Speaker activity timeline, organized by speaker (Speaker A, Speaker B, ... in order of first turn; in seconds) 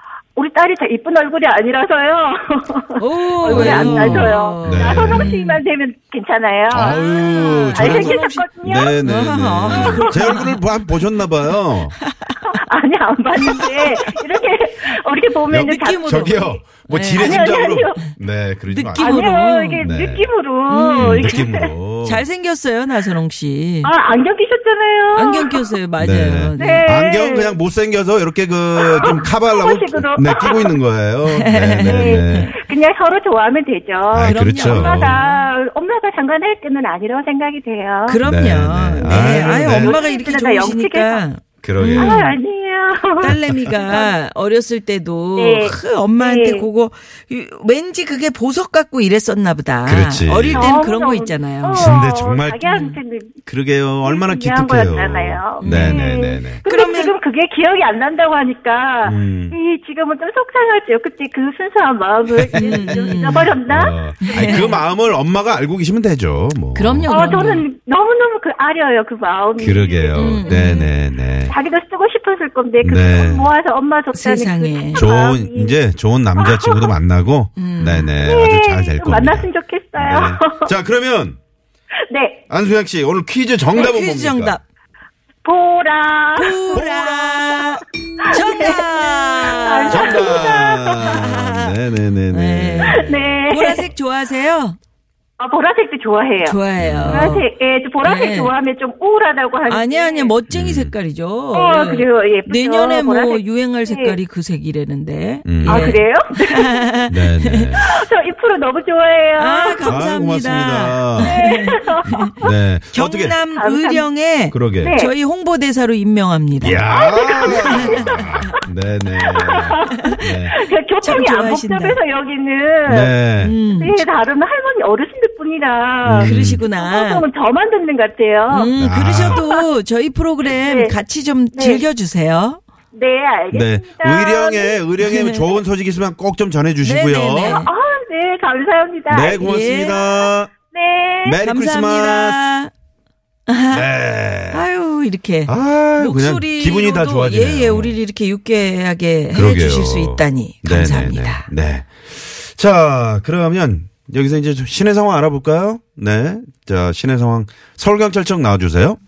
Speaker A: 0.3-9.0, 9.7-10.2, 12.5-16.4, 17.2-18.0, 19.0-21.7, 23.8-25.7, 26.6-27.6, 28.8-30.8, 31.8-38.2, 39.0-41.2, 41.9-44.1, 45.4-46.7, 50.5-53.3, 54.0-64.8, 67.1-70.5, 71.5-75.8, 76.4-76.9, 78.2-80.7, 82.1-82.4, 85.4-86.8, 88.2-91.2, 92.9-93.9, 95.4-96.6, 97.1-100.3, 101.5-104.2, 105.6-107.0, 107.8-109.9, 111.2-112.3, 113.5-114.1, 114.8-115.1, 116.8-118.5, 119.2-123.1, 123.8-128.7, 129.3-129.7, 130.5-130.9, 131.5-131.8, 132.9-134.8, 137.4-141.4
Speaker B: 3.0-5.6, 6.8-8.4, 9.0-10.6, 12.0-12.4, 13.4-14.2, 15.6-17.5, 18.7-19.9, 20.7-21.4, 22.0-23.9, 25.1-26.9, 31.3-32.5, 34.2-35.5, 38.0-42.3, 43.2-51.9, 52.6-53.0, 55.6-57.1, 62.5-63.6, 64.2-64.7, 66.7-67.7, 70.1-70.9, 74.1-75.0, 77.5-78.1, 83.7-84.6, 86.3-90.4, 91.0-91.7, 92.3-94.8, 96.4-97.5, 98.0-98.5, 99.7-107.7, 109.4-112.4, 112.9-116.8, 117.5-118.6, 119.9-120.2, 121.0-122.0, 123.4-124.0, 126.2-127.2, 128.5-132.6, 135.0-135.6, 136.8-137.7, 139.4-140.0, 141.4-142.7, 143.5-143.9, 144.5-151.5
Speaker C: 3.4-5.3, 6.7-11.9, 15.5-19.3, 19.8-20.3, 21.0-22.3, 26.0-32.5, 34.1-35.2, 38.2-40.0, 41.6-42.3, 49.9-50.7, 51.7-52.6, 53.5-56.6, 59.0-59.5, 62.4-67.1, 69.6-71.5, 72.8-73.5, 74.9-81.4, 82.5-84.6, 86.7-87.8, 89.9-93.4, 96.8-97.3, 100.5-101.0, 105.4-106.0, 107.1-107.9, 109.8-111.3, 112.4-113.4, 114.5-115.0, 116.6-120.5, 122.8-123.6, 126.0-126.6, 128.8-129.4, 133.5-137.6, 139.1-140.5, 141.2-142.4, 143.7-144.7, 145.5-148.0, 149.3-159.0